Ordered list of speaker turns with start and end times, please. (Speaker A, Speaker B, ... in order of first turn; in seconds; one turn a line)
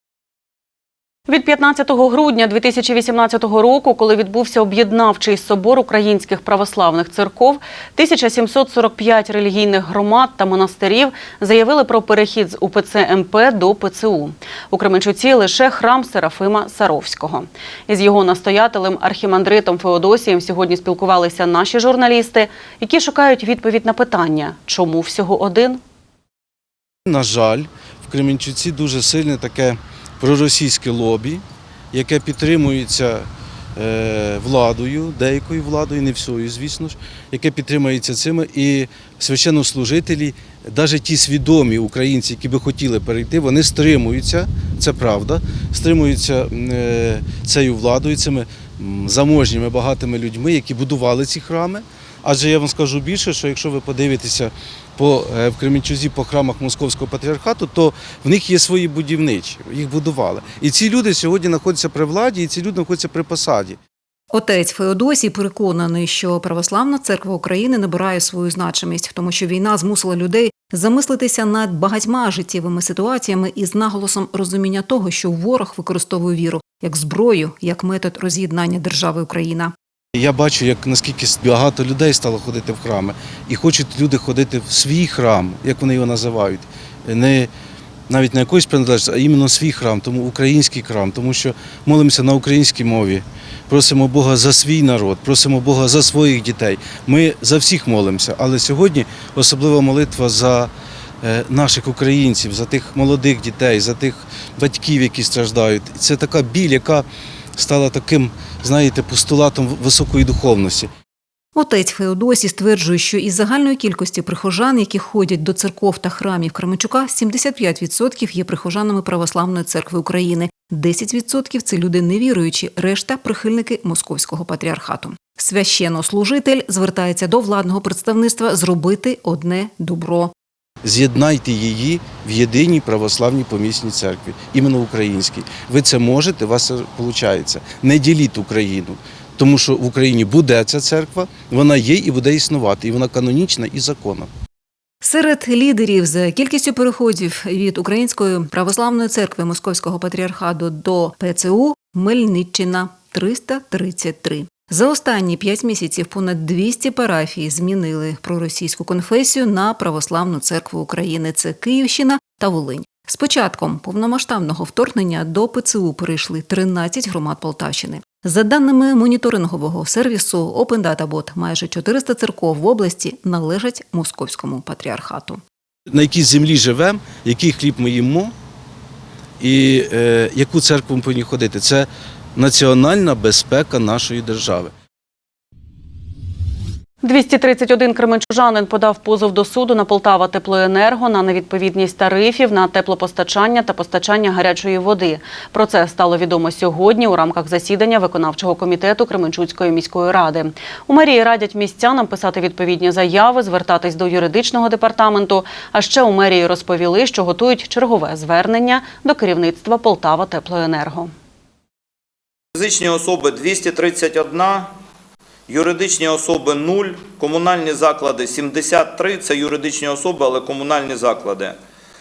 Speaker A: 1.3-25.8
Speaker B: 27.1-63.8
Speaker C: 64.3-79.7
Speaker B: 80.1-87.5
Speaker B: 88.1-100.7
Speaker B: 101.2-110.9
Speaker C: 111.5-130.3
Speaker B: 130.8-144.3
Speaker C: 145.0-175.4
Speaker B: 175.9-178.3
Speaker B: 179.4-184.7
Speaker A: 187.0-211.1
Speaker D: 212.5-214.7
Speaker D: 215.5-221.6